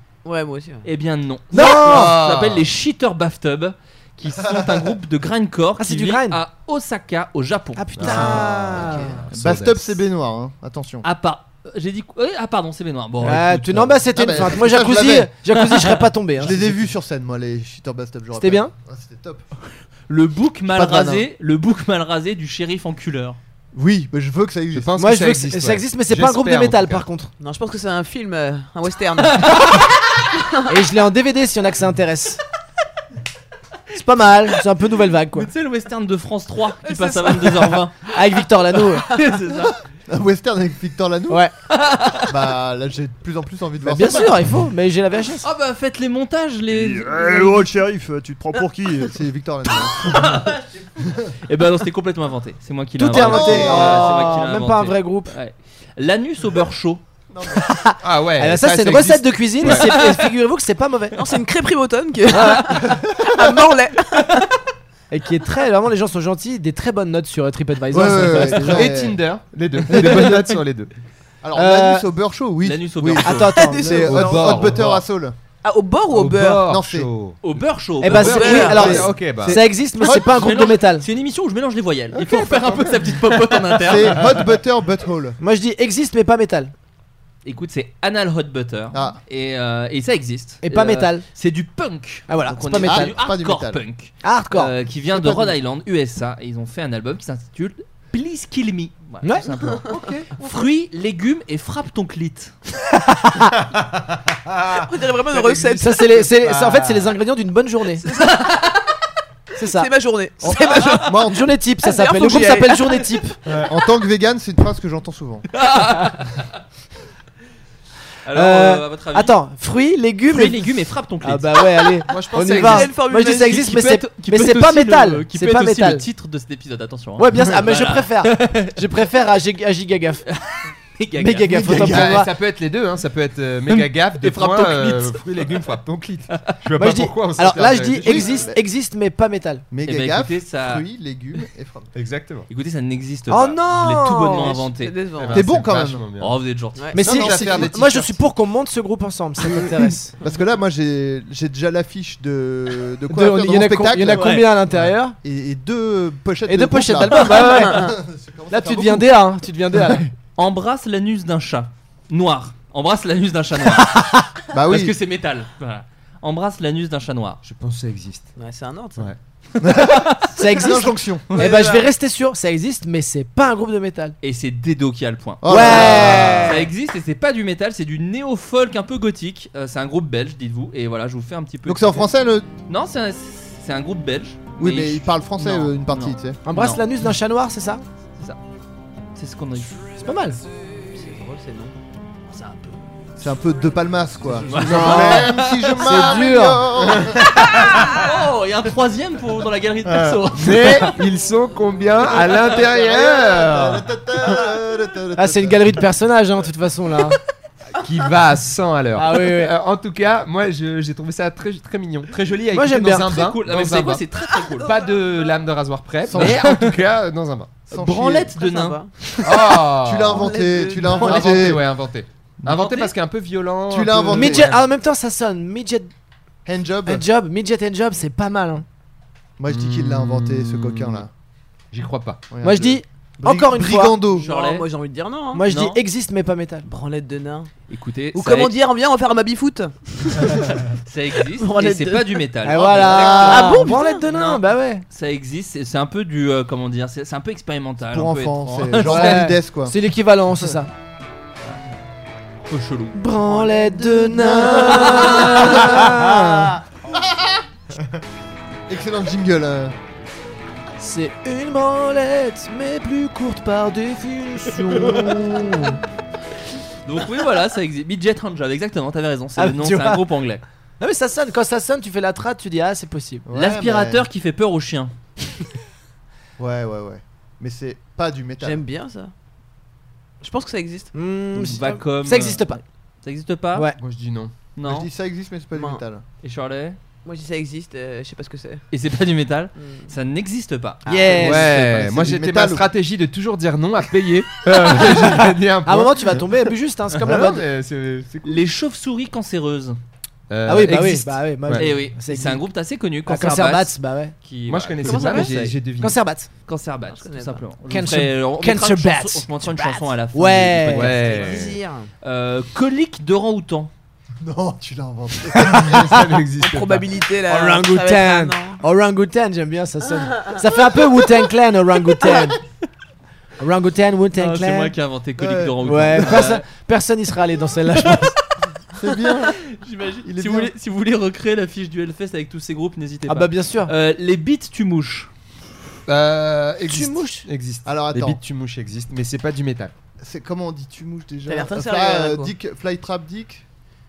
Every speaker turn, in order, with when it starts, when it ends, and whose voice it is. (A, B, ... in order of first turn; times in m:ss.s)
0:00.2-0:00.9 A
0:00.8-0:08.4 B
0:01.5-0:02.2 C
0:01.6-0:02.7 D
0:04.5-0:04.8 E
0:05.8-0:06.4 C
0:07.8-0:09.2 C
0:08.0-0:10.0 D
0:09.3-0:11.1 E
0:11.0-0:14.1 B
0:13.2-0:16.8 C
0:14.2-0:15.3 E
0:15.5-0:16.1 B
0:16.4-0:19.4 E
0:18.4-0:18.7 C
0:20.1-0:23.4 B
0:20.7-0:21.3 E
0:23.7-0:24.9 E
0:24.7-0:27.0 D
0:25.0-0:27.3 C
0:27.4-0:29.7 A
0:29.3-0:29.9 B
0:30.7-0:32.4 C
0:33.9-0:35.5 C
0:35.3-0:38.0 B
0:36.8-0:37.8 A
0:38.1-0:39.1 C
0:39.0-0:39.8 B
0:40.1-0:41.5 E
0:41.7-0:42.3 B
0:42.2-0:44.4 E
0:43.8-0:45.4 C
0:45.4-0:47.7 B
0:46.7-0:49.2 F
0:49.1-0:50.3 E
0:50.0-0:57.0 B
0:53.0-0:55.3 C
0:53.1-0:54.2 E
0:57.3-0:57.7 E
0:57.5-1:01.2 C
0:58.0-1:00.0 D
0:59.7-1:00.2 B
1:01.1-1:04.4 A
1:02.3-1:02.7 C
1:05.1-1:08.9 C
1:07.9-1:09.2 E
1:08.4-1:10.9 D
1:09.9-1:10.5 C
1:11.4-1:15.4 E
1:11.6-1:12.1 C
1:12.6-1:13.5 B
1:13.2-1:14.3 C
1:13.5-1:14.8 A
1:14.0-1:15.1 D
1:15.6-1:16.7 A
1:16.1-1:17.4 D
1:16.6-1:17.1 E
1:17.4-1:19.0 B
1:18.0-1:21.0 C
1:18.1-1:19.7 D
1:18.2-1:19.0 A
1:18.5-1:20.6 E
1:20.1-1:24.3 B
1:22.2-1:23.0 D
1:23.8-1:25.4 E
1:25.4-1:26.7 C
1:27.4-1:42.5 B
1:28.9-1:29.2 E
1:30.6-1:31.2 C
1:32.3-1:33.2 C
1:32.7-1:33.8 E
1:34.2-1:34.7 C
1:35.1-1:35.6 E
1:39.2-1:39.5 C
1:39.9-1:40.3 D
1:43.0-1:43.5 C
1:43.8-1:44.8 D
1:44.8-1:46.2 A
1:45.3-1:47.2 D
1:45.8-1:48.0 C
1:48.0-1:48.7 A
1:48.1-1:48.7 B
1:49.6-1:49.9 C
1:49.6-1:51.3 A
1:50.8-1:51.5 E
1:51.2-1:53.4 C
1:51.8-1:53.1 A
1:53.5-1:53.7 D
1:53.6-1:55.5 E
1:55.5-1:56.6 B
1:58.2-1:59.4 B
1:58.3-2:06.0 C
2:00.3-2:01.9 B
2:02.1-2:02.9 D
2:02.5-2:03.7 A
2:03.3-2:08.8 B
2:07.2-2:10.2 C
2:10.3-2:12.0 B
2:11.2-2:12.3 C
2:11.6-2:18.4 D
2:11.7-2:12.1 E
2:13.7-2:15.6 B
2:16.8-2:19.6 C
2:18.0-2:18.6 E
2:19.7-2:21.9 E
2:19.9-2:20.8 B
2:22.0-2:22.5 D
2:22.5-2:25.0 B
2:23.3-2:24.6 C
2:24.5-2:25.5 A
2:25.2-2:26.4 D
2:25.3-2:26.1 E
2:26.2-2:27.0 B
2:26.9-2:30.1 C
2:27.0-2:28.2 D
2:27.0-2:27.7 E
2:30.2-2:34.4 E
2:33.1-2:35.2 C
2:34.2-2:34.5 B
2:35.2-2:39.2 E
2:36.5-2:37.9 C
2:37.5-2:37.9 A
2:38.5-2:40.0 C
2:40.4-2:47.4 B
2:44.5-2:45.0 E
2:47.4-2:48.3 D
2:48.4-2:49.1 A
2:49.6-2:51.3 E
2:50.2-2:54.2 C
2:51.3-2:51.9 A
2:54.2-3:02.1 B
2:55.4-2:56.6 E
2:55.5-2:56.7 C
3:01.7-3:02.5 E
3:02.7-3:06.8 B
3:04.6-3:06.4 E
3:06.5-3:07.8 C
3:09.2-3:09.8 B
3:10.0-3:10.4 C
3:11.0-3:11.8 A
3:12.3-3:12.8 B
3:13.2-3:17.2 E
3:14.4-3:15.8 B
3:14.5-3:16.1 D
3:14.7-3:16.6 C
3:16.7-3:18.1 D
3:17.3-3:21.0 B
3:19.9-3:24.4 D
3:22.2-3:25.8 E
3:25.2-3:27.2 C
3:27.8-3:34.0 D
3:29.0-3:29.5 C
3:32.5-3:33.1 C
3:33.0-3:34.7 B
3:34.6-3:37.6 D
3:36.1-3:36.4 E
3:36.1-3:36.8 B
3:37.7-3:38.8 B
3:37.7-3:38.3 E
3:38.4-3:39.2 A
3:39.2-3:44.6 D
3:39.5-3:41.6 E
3:40.1-3:41.6 A
3:42.5-3:42.9 B
3:43.7-3:44.5 E
3:44.1-3:45.9 C
3:46.4-3:47.0 E
3:46.9-3:48.6 C
3:49.4-3:51.1 E
3:49.5-3:51.1 D
3:51.7-3:52.2 D
3:52.3-3:54.3 E
3:52.4-3:54.0 C
3:54.1-3:55.4 A
3:54.2-3:54.7 B
3:55.3-3:56.7 C
3:55.5-3:55.8 B
3:56.6-3:57.5 A
3:57.7-3:58.5 B
3:58.1-4:00.7 A
4:00.8-4:09.3 B
4:01.3-4:02.2 A
4:02.4-4:04.8 C
4:02.8-4:03.6 E
4:03.1-4:04.0 A
4:07.9-4:09.8 E
4:08.8-4:10.7 C
4:12.5-4:13.0 B
4:12.9-4:16.6 C
4:14.1-4:16.1 E
4:14.9-4:15.7 B
4:18.7-4:19.8 E
4:20.8-4:25.8 C
4:26.8-4:30.4 B
4:29.4-4:30.0 C
4:30.8-4:33.2 C
4:33.3-4:34.1 E
4:33.3-4:34.9 B
4:36.4-4:38.6 E
4:38.4-4:39.1 A
4:40.2-4:40.9 A
4:40.9-4:42.6 C
4:41.4-4:43.7 B
4:43.8-4:44.3 D
4:44.6-4:44.9 B
4:44.6-4:46.0 E
4:45.5-4:45.8 A
4:46.2-4:46.8 B
4:47.0-4:48.6 A
4:48.7-4:52.2 B
4:49.6-4:49.9 A
4:50.9-4:51.2 A
4:50.9-4:51.5 C
4:51.2-4:56.3 D
4:51.8-4:52.7 E
4:55.6-4:57.4 C
4:56.9-4:58.4 D
4:58.2-4:59.8 B
5:00.3-5:01.8 D
5:00.5-5:02.4 C
5:01.6-5:05.5 B
5:03.1-5:04.1 C
5:04.5-5:06.0 D
5:04.8-5:05.5 A
5:05.8-5:06.3 C
5:06.5-5:11.4 B
5:06.9-5:07.4 A
5:07.7-5:09.6 C
5:10.1-5:10.9 C
5:10.7-5:11.6 D
5:11.0-5:11.9 A
5:12.0-5:13.7 B
5:14.2-5:16.1 E
5:15.3-5:17.0 D
5:16.4-5:18.6 A
5:17.3-5:22.4 C
5:23.4-5:24.7 C
5:24.1-5:26.4 B
5:25.2-5:25.6 E
5:25.6-5:28.2 C
5:27.8-5:28.2 B
5:28.8-5:29.4 E
5:29.3-5:35.1 B
5:30.1-5:30.5 E
5:33.1-5:33.7 C
5:35.9-5:39.7 D
5:36.7-5:37.3 C
5:37.6-5:38.2 E
5:40.0-5:43.4 E
5:41.3-5:42.3 A